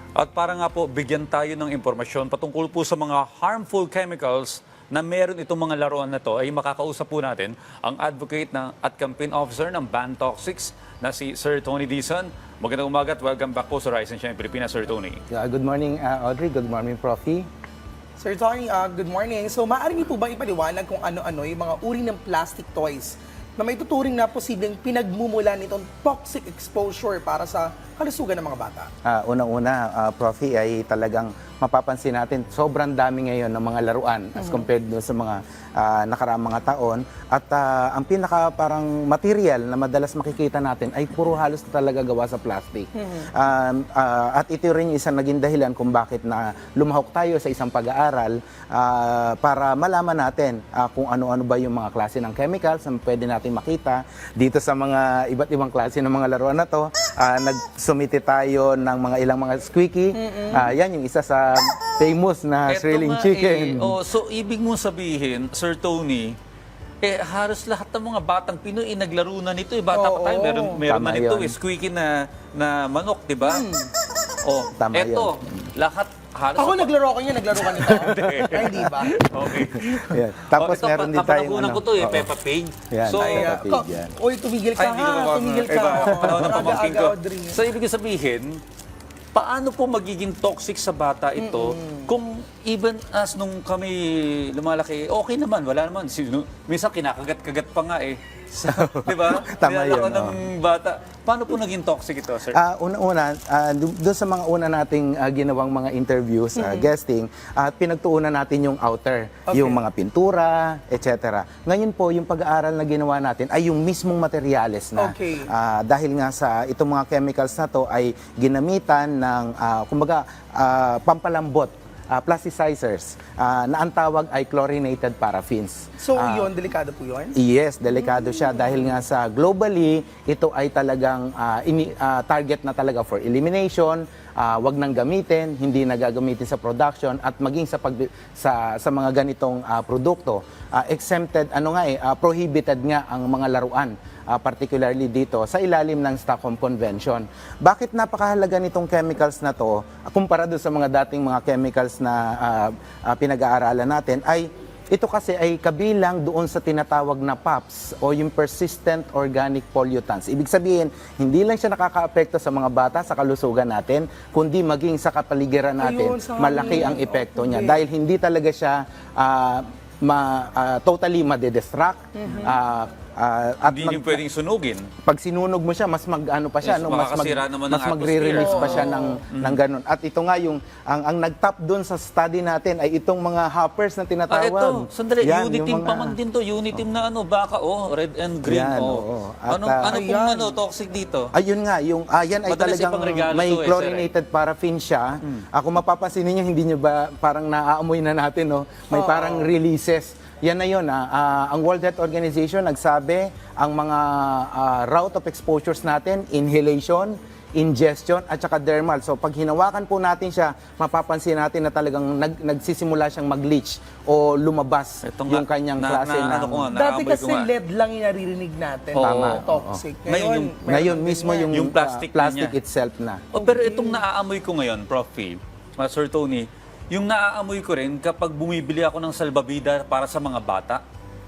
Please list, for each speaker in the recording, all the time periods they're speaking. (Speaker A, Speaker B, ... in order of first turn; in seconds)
Speaker A: 0.2-15.2, 62.7-66.3, 67.0-73.6, 74.4-76.9, 77.8-83.6, 84.8-88.6, 89.3-102.6, 173.6-174.9, 176.6-179.6, 184.3-191.3, 192.4-194.1, 215.0-217.5, 218.9-219.4, 220.1-220.6, 221.5-222.5, 223.3-230.8
Speaker B: 15.3-17.5, 29.0-64.0, 70.8-71.5, 74.8-75.7, 77.9-82.3, 82.9-84.1, 86.2-86.7, 98.6-100.4, 102.5-126.5, 127.3-174.2, 175.0-186.2, 188.4-190.0, 191.3-216.7, 219.0-219.8, 220.7-223.3
Speaker C: 18.2-28.9, 43.0-43.3, 60.1-60.7, 69.9-70.8, 73.4-73.9, 76.5-79.2, 83.2-87.6, 91.4-92.1, 106.5-106.9, 109.5-109.8, 115.0-115.5, 126.0-127.3, 165.8-167.8, 172.1-172.6, 178.3-179.2, 189.9-190.6, 198.9-199.5, 216.7-221.7, 223.3-224.0